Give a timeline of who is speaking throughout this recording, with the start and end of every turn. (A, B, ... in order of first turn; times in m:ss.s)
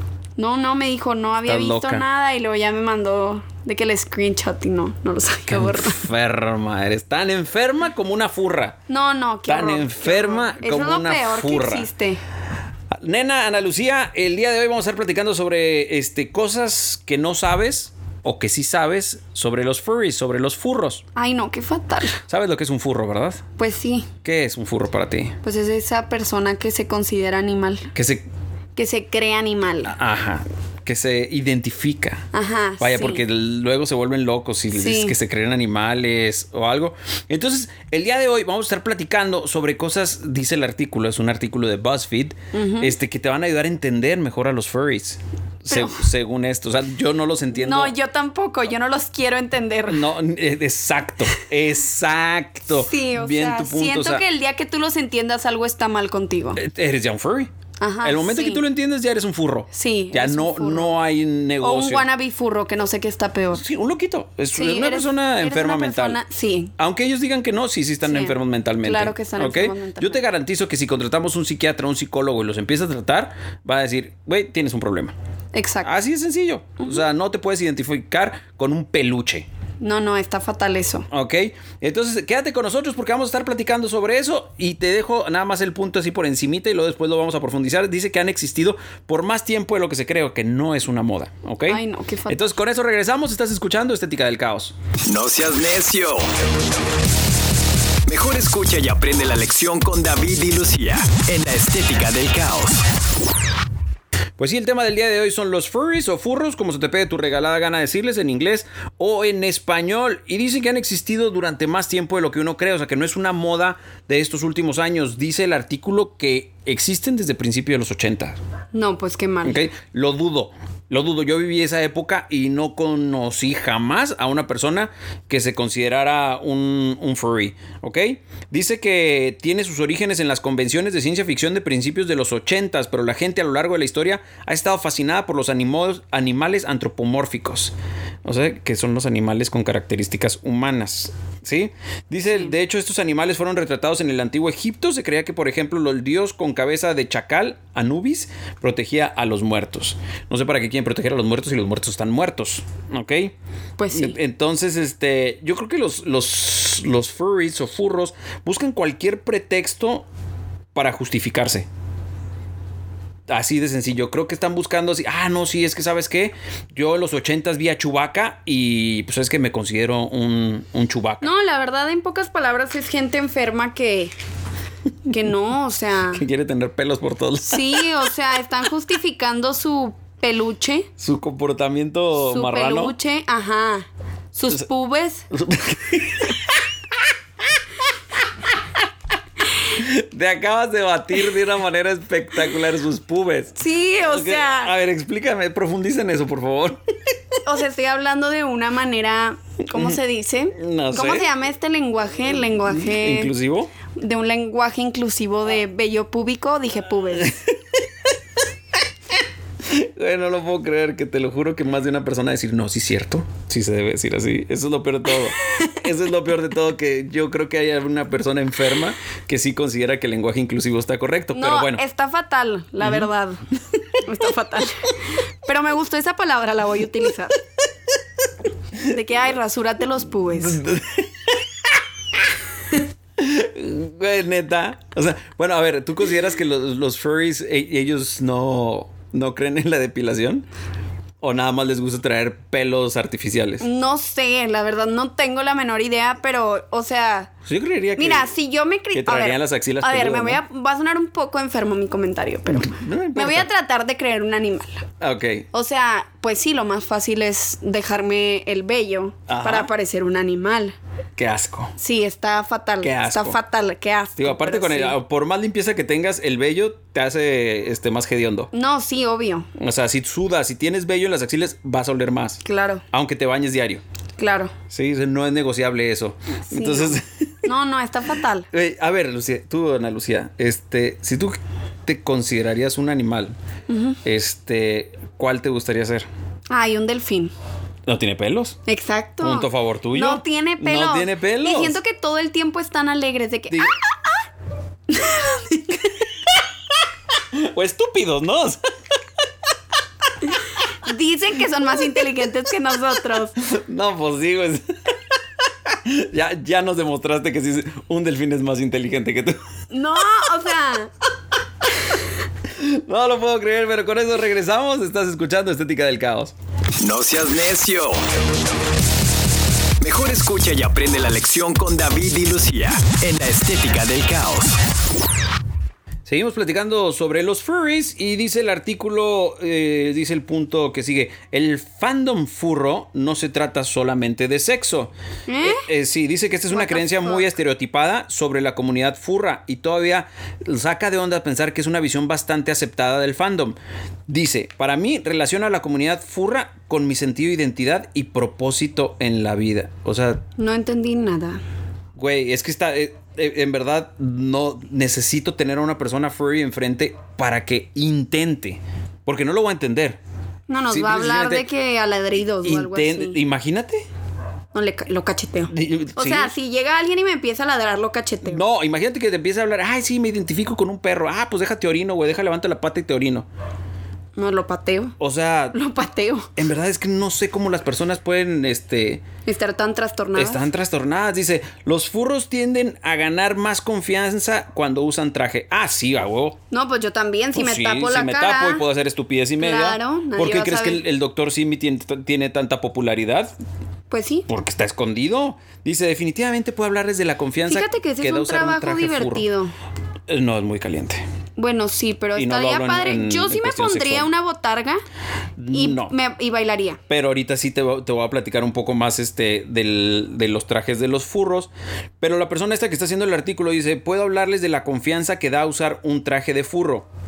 0:00.4-0:06.0 A
0:01.4-0:02.0 B
0:05.5-0:08.8 B
0:08.9-0:12.2 A
0:09.5-0:11.9 B
0:12.9-0:21.0 B
0:21.1-0:22.2 A
0:22.2-0:23.4 B
0:23.6-0:24.1 A
0:24.2-0:25.4 B
0:25.4-0:27.9 A
0:27.9-0:28.3 B
0:28.8-0:29.9 A
0:29.8-0:32.2 B
0:32.3-0:33.2 A
0:32.8-0:47.9 B
0:34.7-0:35.1 A
0:42.5-0:42.9 A
0:45.7-0:46.1 A
0:47.5-0:50.0 A
0:49.9-0:54.2 B
0:52.7-0:56.6 A
0:56.6-0:57.5 B
0:57.8-0:58.6 A
0:58.0-1:02.0 B
0:59.7-1:01.0 A
1:01.6-1:03.6 A
1:03.5-1:06.2 B
1:04.5-1:06.7 A
1:06.8-1:15.1 B
1:08.0-1:10.2 A
1:15.5-1:15.9 A
1:15.8-1:19.5 B
1:19.8-1:21.1 A
1:21.1-1:34.7 B
1:31.7-1:32.6 A
1:35.0-1:36.3 C
1:38.1-1:42.8 C
1:44.4-1:58.4 B
1:58.7-1:59.6 A
1:59.4-2:33.3 B
2:33.8-2:34.2 A
2:33.9-2:40.0 B
2:40.7-2:41.7 B
2:43.3-2:51.3 B
2:51.2-2:54.1 A
2:55.0-2:56.2 A
2:56.1-2:57.8 B
2:57.4-3:00.9 A
3:01.0-3:02.9 B
3:02.2-3:05.3 A
3:05.3-3:06.4 B
3:09.7-3:16.8 B
3:13.6-3:14.7 A
3:17.4-3:23.3 A
3:19.7-3:20.0 B
3:20.5-3:21.3 B
3:22.7-3:23.7 B
3:23.9-3:27.4 A
3:27.2-3:27.5 B
3:29.6-3:41.8 B
3:35.4-3:35.8 A
3:41.3-3:43.4 A
3:44.0-3:47.4 A
3:48.8-3:50.6 A
3:50.3-3:51.3 B
3:53.2-4:00.4 B
4:01.2-4:03.6 B
4:03.6-4:07.3 A
4:07.4-4:08.3 B
4:08.0-4:14.8 A
4:08.9-4:10.4 B
4:12.5-4:13.5 B
4:15.0-4:15.4 B
4:15.5-4:20.8 A
4:19.3-4:19.7 B
4:21.2-4:21.7 B
4:21.8-4:25.0 A
4:22.8-4:23.4 B
4:24.2-4:28.5 B
4:28.5-4:29.5 A
4:29.6-4:33.8 B
4:32.4-4:32.8 A
4:34.2-4:34.5 A
4:34.7-4:37.4 B
4:36.5-4:38.5 A
4:38.5-4:43.3 B
4:43.7-4:44.0 A
4:44.0-4:46.1 B
4:46.5-4:47.3 A
4:47.8-4:48.6 B
4:48.7-4:53.8 A
4:49.2-4:51.8 B
4:54.9-4:55.9 A
4:57.3-4:58.6 B
5:00.3-5:03.4 A
5:03.4-5:04.7 B
5:05.6-5:09.4 B
5:09.7-5:10.9 A
5:12.5-5:16.3 B
5:16.8-5:18.0 C
5:19.8-5:24.6 C
5:26.0-5:43.6 B
5:35.3-5:35.7 A
5:36.5-5:37.2 A
5:44.1-5:50.2 B
5:50.4-5:51.4 A
5:52.0-6:00.0 B
6:00.5-6:03.2 A
6:00.7-6:01.5 B
6:02.4-6:03.8 B
6:04.5-6:08.4 A
6:05.5-6:06.3 B
6:08.2-6:13.3 B
6:14.2-6:15.0 A
6:15.0-6:15.6 B
6:15.5-6:16.3 A
6:16.4-6:19.0 B
6:19.2-6:20.5 A
6:20.1-6:26.4 B
6:26.5-6:28.6 A
6:27.3-6:33.3 B
6:29.4-6:30.8 A
6:33.9-6:34.3 A
6:34.3-6:39.3 B
6:37.5-6:39.5 A
6:40.1-6:41.0 B
6:41.4-6:44.8 A
6:42.1-6:44.1 B
6:45.4-6:45.9 B
6:45.5-6:46.8 A
6:46.9-6:56.9 B